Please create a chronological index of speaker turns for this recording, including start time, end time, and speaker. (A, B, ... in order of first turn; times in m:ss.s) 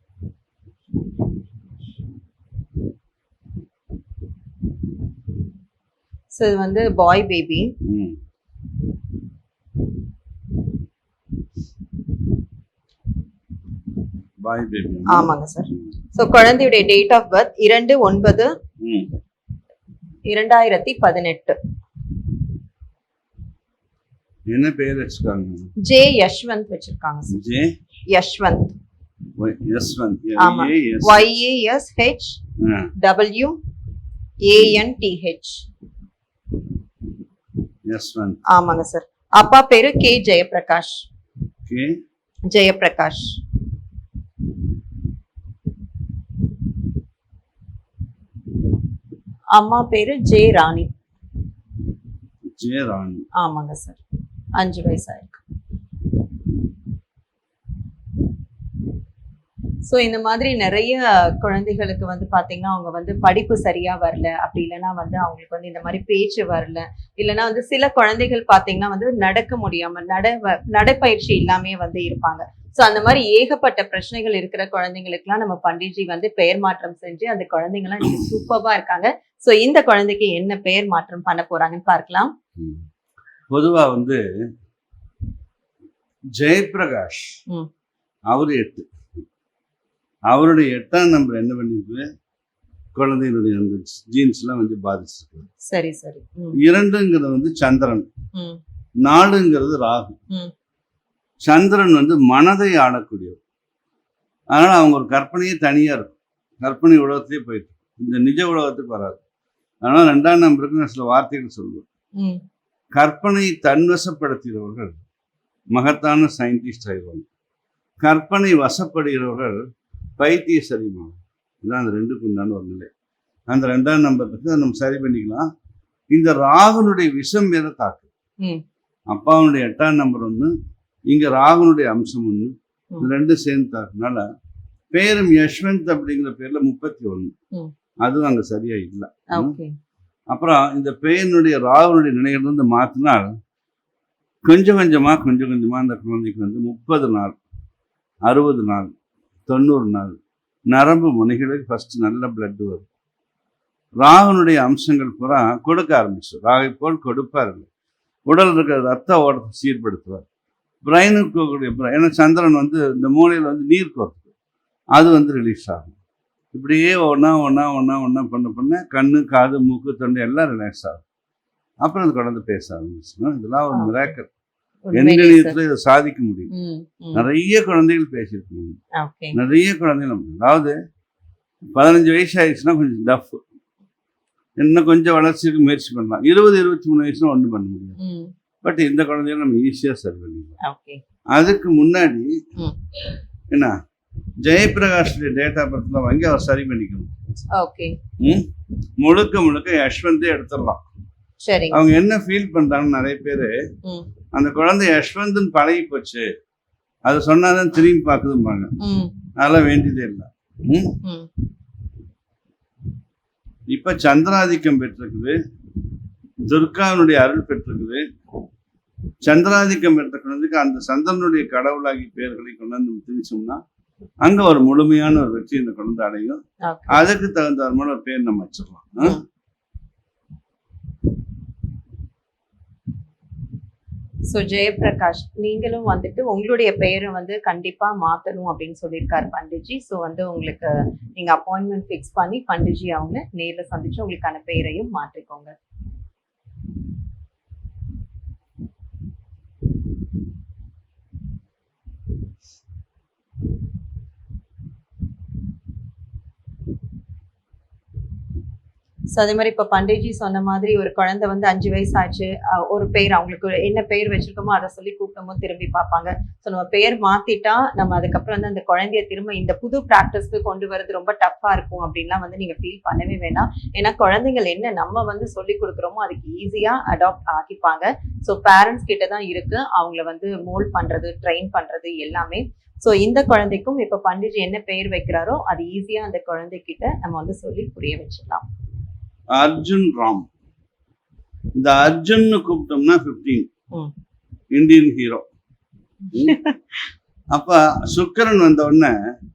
0:06.3-0:07.7 A
0:07.8-0:08.2 B
0:14.4-0:15.3 B
0:15.1-0:18.5 A
0:18.8-0:19.1 B
0:20.3-0:21.6 A
0:24.5-0:25.7 B
0:25.8-0:27.3 A
0:27.3-0:27.7 B
0:28.1-0:28.7 A
0:29.4-0:31.2 B
0:30.4-0:32.4 A
0:32.6-0:32.9 B
0:33.0-0:33.6 A
0:34.4-0:35.6 A
0:37.9-0:38.4 B
0:38.5-0:41.0 A
0:41.6-0:41.9 B
0:42.5-0:43.3 A
0:49.5-0:50.9 A
0:52.6-0:53.2 B
0:53.4-0:54.0 A
0:54.6-0:55.4 A
0:59.8-1:22.3 A
1:23.5-1:24.2 B
1:26.3-1:27.4 B
1:28.3-1:28.8 B
1:30.3-1:32.0 B
1:32.9-1:35.5 B
1:35.7-1:36.6 A
1:36.6-1:38.1 B
1:39.0-1:40.2 B
1:41.4-1:43.4 B
1:44.5-1:49.2 B
1:49.8-1:51.8 B
1:52.9-1:55.0 B
1:55.7-1:57.2 B
1:58.0-1:59.6 B
2:00.2-2:02.9 B
2:03.5-2:05.4 B
2:06.1-2:08.1 B
2:09.1-2:10.5 B
2:11.1-2:14.2 B
2:14.9-2:17.3 B
2:18.0-2:19.6 B
2:19.3-2:19.7 A
2:20.3-2:23.3 B
2:24.4-2:27.4 B
2:28.2-2:28.9 B
2:29.5-2:30.2 B
2:30.7-2:32.8 B
2:34.0-2:37.7 B
2:38.3-2:40.2 B
2:40.8-2:44.2 B
2:44.9-2:45.9 B
2:46.5-2:51.0 B
2:51.8-2:54.3 B
2:53.7-2:54.1 A
2:54.9-2:55.6 A
2:54.9-2:56.5 B
2:56.5-2:57.2 A
2:57.1-2:58.8 B
2:59.0-2:59.4 A
2:59.3-3:00.7 B
3:01.7-3:03.4 B
3:04.6-3:08.0 B
3:08.0-3:08.3 A
3:08.6-3:10.5 B
3:10.6-3:11.0 A
3:11.3-3:12.3 B
3:14.4-3:17.1 B
3:17.5-3:18.0 A
3:18.2-3:18.4 B
3:19.0-3:20.8 B
3:21.4-3:21.8 A
3:21.7-3:23.6 B
3:24.3-3:26.3 B
3:27.1-3:28.7 B
3:28.8-3:29.1 A
3:29.4-3:31.0 B
3:31.0-3:31.3 A
3:33.7-3:35.4 B
3:36.5-3:38.0 B
3:39.2-3:43.6 B
3:44.2-3:49.2 B
3:46.6-3:47.0 A
3:54.3-4:05.5 A
4:19.1-4:48.4 A
4:49.3-4:50.2 B
4:51.6-4:53.5 B
4:54.5-4:55.2 B
4:56.2-4:56.6 A
4:57.3-4:58.9 B